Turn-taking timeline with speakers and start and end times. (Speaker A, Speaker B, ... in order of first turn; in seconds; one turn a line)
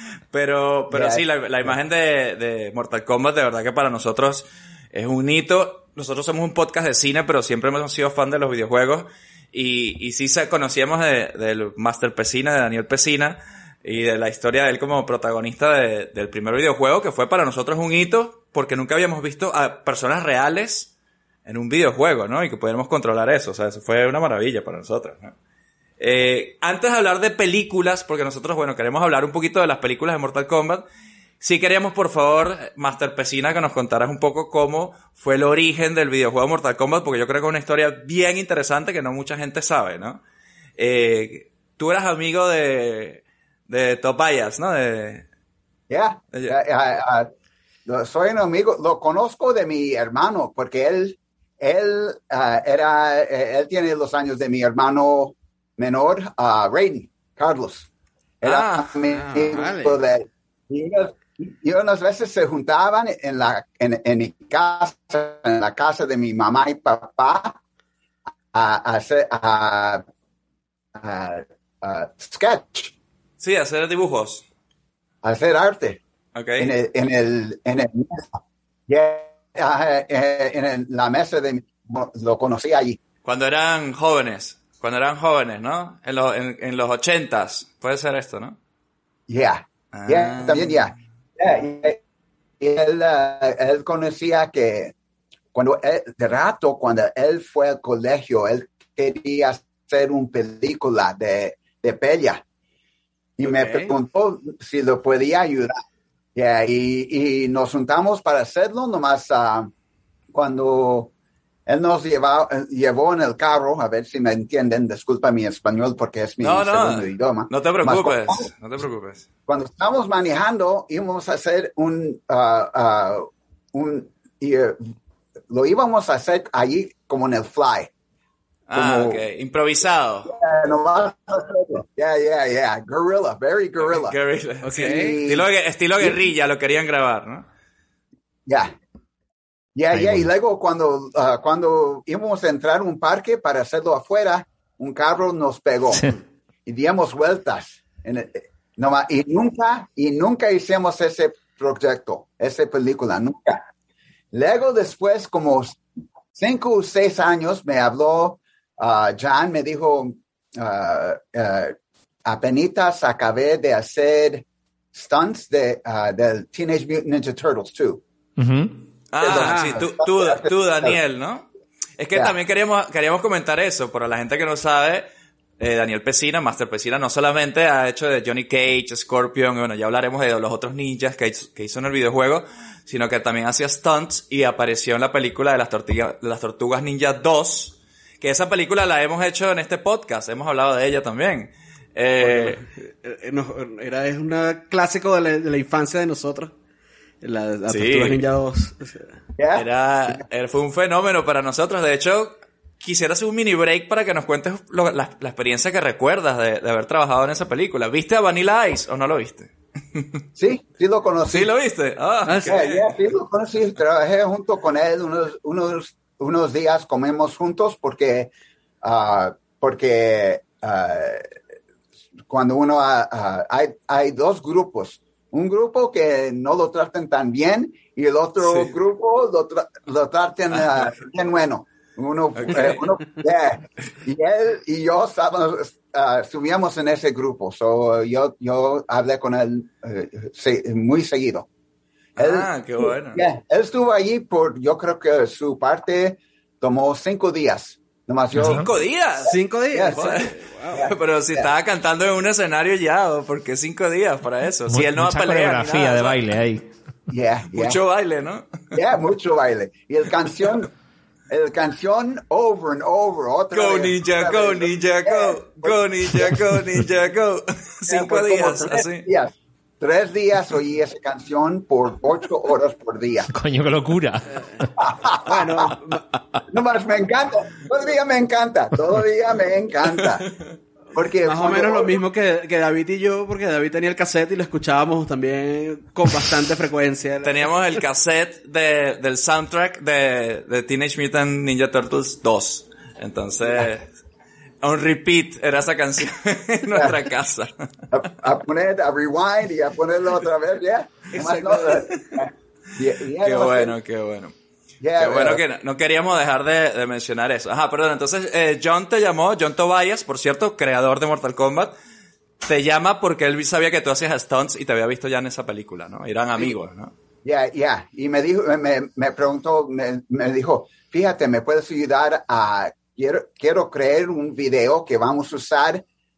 Speaker A: 0.3-20.9
Speaker B: 0.9-1.7
Speaker A: 21.4-25.3
Speaker A: 26.0-30.9
Speaker A: 31.4-40.2
Speaker A: 40.8-45.2
Speaker B: 45.9-47.3
Speaker B: 47.9-57.9
Speaker B: 58.4-67.6
Speaker A: 58.4-59.0
Speaker C: 59.2-60.0
Speaker B: 68.5-70.0
Speaker B: 71.0-72.9
Speaker A: 73.4-74.5
Speaker B: 75.2-76.0
Speaker A: 76.3-76.7
Speaker B: 76.6-83.0
Speaker A: 83.2-88.6
Speaker B: 89.3-92.0
Speaker A: 89.9-90.9
Speaker B: 92.6-95.0
Speaker B: 95.5-102.4
Speaker B: 103.4-105.8
Speaker C: 103.4-103.9
Speaker B: 106.3-109.7
Speaker B: 110.3-111.1
Speaker B: 111.7-118.5
Speaker A: 116.4-119.2
Speaker B: 119.5-124.9
Speaker B: 125.5-127.9
Speaker A: 128.7-130.3
Speaker B: 128.8-129.2
Speaker B: 130.2-134.2
Speaker A: 133.9-137.5
Speaker C: 134.6-135.2
Speaker B: 134.7-135.5
Speaker B: 138.5-138.7
Speaker B: 139.8-153.7
Speaker D: 139.9-140.3
Speaker B: 154.3-155.8
Speaker B: 156.3-168.0
Speaker D: 168.4-168.8
Speaker A: 169.1-171.5
Speaker B: 169.2-171.0
Speaker C: 169.2-169.8
Speaker A: 172.0-175.1
Speaker A: 175.6-192.6
Speaker C: 192.2-196.5
Speaker C: 197.2-199.1
Speaker A: 197.7-198.2
Speaker B: 199.4-200.2
Speaker A: 199.6-210.1
Speaker B: 210.4-211.5
Speaker A: 211.3-212.9
Speaker C: 212.3-212.6
Speaker B: 212.5-218.3
Speaker B: 218.8-221.3
Speaker B: 222.3-241.5
Speaker A: 228.4-228.7
Speaker A: 230.6-230.9
Speaker A: 232.3-232.8
Speaker A: 242.2-243.2
Speaker B: 242.2-248.7
Speaker D: 248.4-248.7
Speaker A: 248.4-256.2
Speaker C: 249.3-250.9
Speaker B: 249.7-250.1
Speaker B: 250.7-251.5
Speaker D: 254.7-256.7
Speaker B: 257.1-257.8
Speaker A: 257.5-258.8
Speaker B: 258.7-260.7
Speaker B: 261.3-266.8
Speaker A: 263.5-269.1
Speaker B: 267.9-273.3
Speaker D: 273.3-274.7
Speaker B: 274.8-275.7
Speaker C: 275.2-276.0
Speaker B: 276.5-280.3
Speaker B: 280.9-282.0
Speaker C: 281.2-287.5
Speaker A: 287.2-293.9
Speaker A: 294.6-297.5
Speaker B: 296.7-297.0
Speaker B: 297.9-303.8
Speaker C: 301.1-301.9
Speaker A: 303.2-304.3
Speaker B: 304.8-305.4
Speaker A: 305.0-311.7
Speaker A: 312.4-316.9
Speaker B: 317.2-325.8